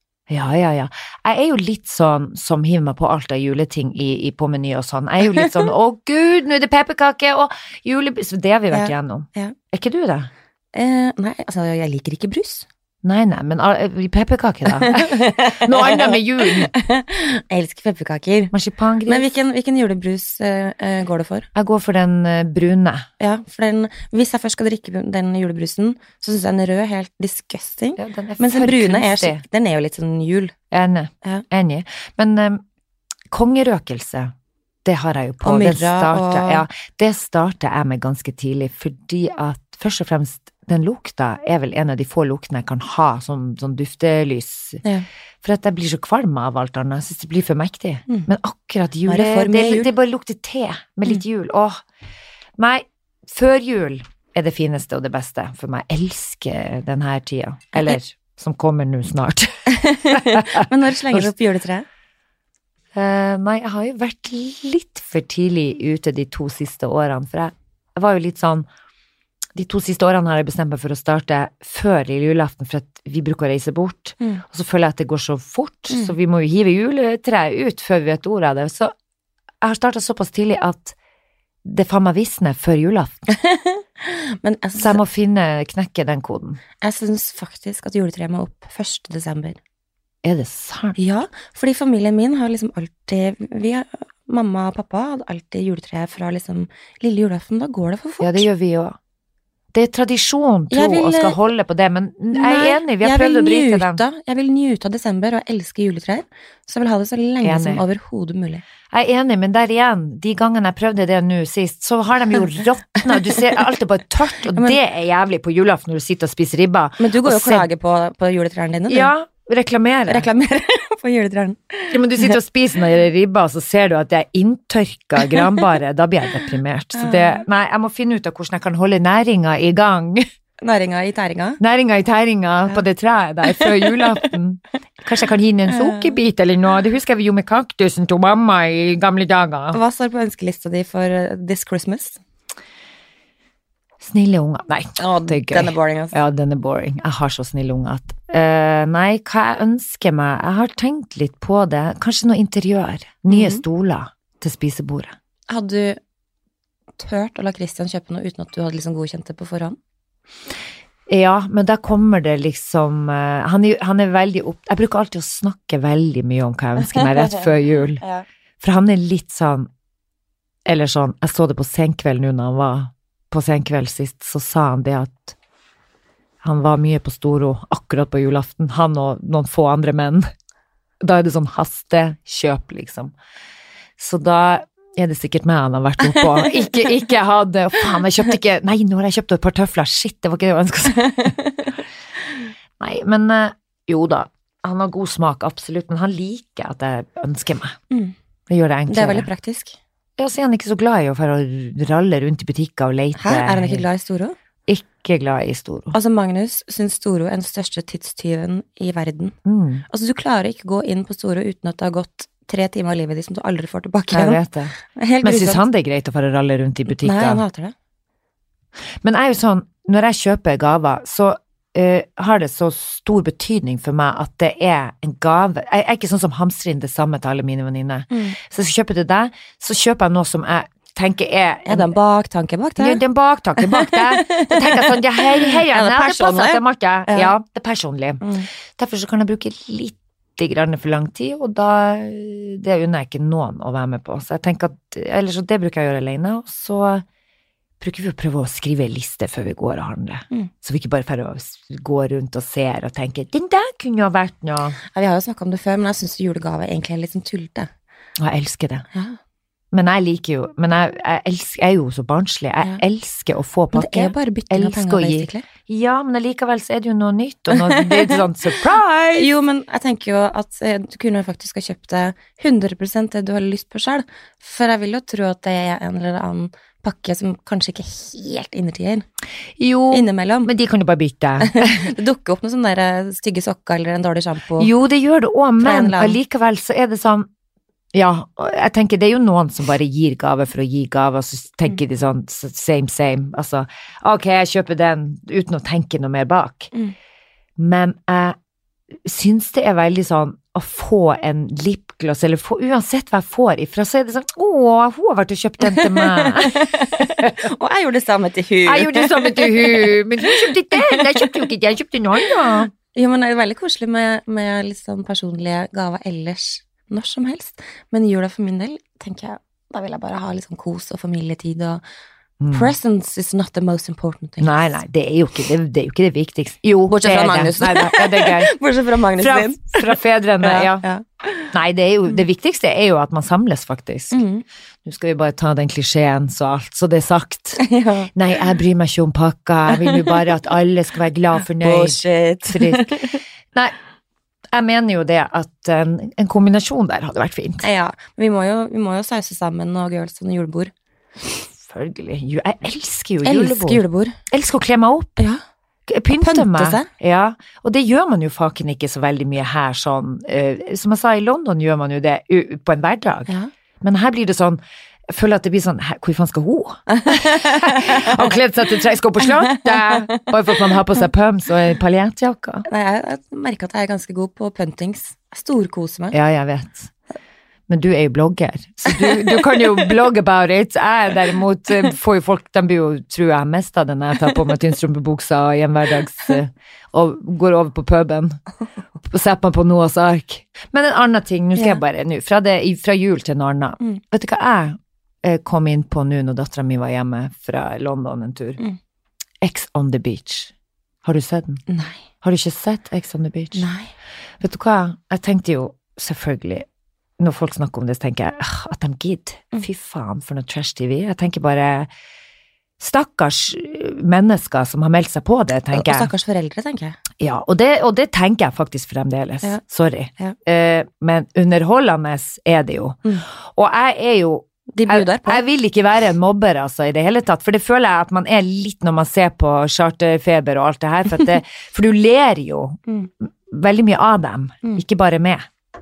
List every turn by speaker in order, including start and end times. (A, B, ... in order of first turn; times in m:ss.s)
0:00.3-0:10.3 A
0:08.7-0:09.6 B
0:10.7-0:12.7 B
0:13.0-0:16.7 A
0:14.7-0:18.5 B
0:18.5-0:19.3 A
0:19.1-0:21.5 B
0:21.6-0:23.1 A
0:23.2-0:30.6 B
0:28.0-0:29.4 A
0:30.7-0:32.6 A
0:33.3-0:34.3 A
0:34.8-0:44.8 A
0:35.4-0:36.6 B
0:45.4-0:51.8 A
0:49.1-0:49.9 B
0:52.6-1:01.3 A
0:59.7-1:01.9 B
1:02.9-1:08.7 A
1:09.6-1:18.9 A
1:19.6-1:21.0 A
1:21.6-1:23.3 A
1:23.3-1:25.0 B
1:24.8-1:26.6 A
1:26.8-1:29.6 B
1:30.2-1:31.0 A
1:31.0-1:38.4 B
1:38.2-1:39.0 A
1:39.7-1:44.0 A
1:40.7-1:41.4 B
1:42.3-1:48.6 B
1:47.4-1:47.8 A
1:48.9-1:57.7 A
1:53.1-1:53.4 B
1:54.5-1:54.8 B
1:57.0-1:59.1 B
1:58.9-2:00.3 A
2:00.1-2:02.4 B
2:01.9-2:10.2 A
2:07.0-2:07.4 B
2:10.6-2:11.6 B
2:11.6-2:19.8 A
2:13.5-2:13.9 B
2:15.7-2:16.1 B
2:19.7-2:22.2 B
2:24.0-2:35.2 A
2:25.0-2:26.2 B
2:33.3-2:33.6 B
2:35.5-2:36.0 B
2:37.0-2:39.8 B
2:41.1-2:48.0 A
2:46.9-2:47.5 B
2:48.0-2:48.2 B
2:48.6-2:49.7 A
2:50.7-2:55.4 A
2:56.4-3:00.3 A
3:01.0-3:03.1 A
3:04.0-3:11.3 A
3:06.1-3:06.4 B
3:11.0-3:11.7 B
3:12.8-3:17.8 A
3:18.5-3:19.3 A
3:18.9-3:19.8 B
3:20.2-3:23.8 A
3:23.2-3:24.4 B
3:24.7-3:26.0 A
3:25.9-3:29.4 B
3:29.4-3:29.8 A
3:29.9-3:35.6 B
3:34.1-3:37.4 A
3:36.9-3:37.7 B
3:39.0-3:51.9 A
3:48.1-3:48.4 B
3:51.7-3:53.0 B
3:52.8-4:07.0 A
3:53.6-3:57.3 B
3:58.2-3:58.5 B
4:07.8-4:14.8 A
4:14.9-4:17.7 B
4:18.2-4:18.8 A
4:18.9-4:19.2 B
4:19.7-4:29.3 A
4:23.7-4:25.5 B
4:27.5-4:28.2 B
4:29.1-4:39.0 B
4:39.6-4:41.9 A
4:39.9-4:40.5 B
4:41.4-4:44.7 B
4:44.6-4:47.3 A
4:45.6-4:46.2 B
4:47.9-4:56.7 A
4:57.6-4:58.4 A
4:59.0-5:07.4 A
5:05.6-5:11.4 B
5:08.7-5:12.7 A
5:12.9-5:21.8 B
5:22.4-5:22.7 A
5:22.5-5:24.7 B
5:24.4-5:28.5 A
5:26.9-5:31.5 B
5:29.2-5:30.8 A
5:31.5-5:34.2 A
5:34.1-5:34.4 B
5:34.8-5:37.6 A
5:37.6-5:38.1 B
5:38.1-5:43.8 A
5:39.7-5:40.1 B
5:41.5-5:43.2 B
5:44.5-5:47.6 A
5:47.6-5:50.7 B
5:51.6-5:55.2 A
5:53.2-5:54.2 B
5:55.9-6:12.7 A
5:56.2-5:56.9 B
6:06.9-6:08.3 B
6:09.3-6:10.3 B
6:12.7-6:16.2 B
6:16.1-6:16.9 A
6:17.7-6:28.4 A
6:29.0-6:38.6 A
6:39.4-6:40.5 A
6:41.0-6:41.6 A
6:41.7-6:42.0 B
6:42.2-6:43.7 A
6:43.6-6:43.9 B
6:44.4-6:46.7 A
6:47.2-6:51.9 A
6:52.8-6:56.1 A
6:55.7-6:57.0 B
6:57.2-7:15.5 A
7:04.7-7:05.4 B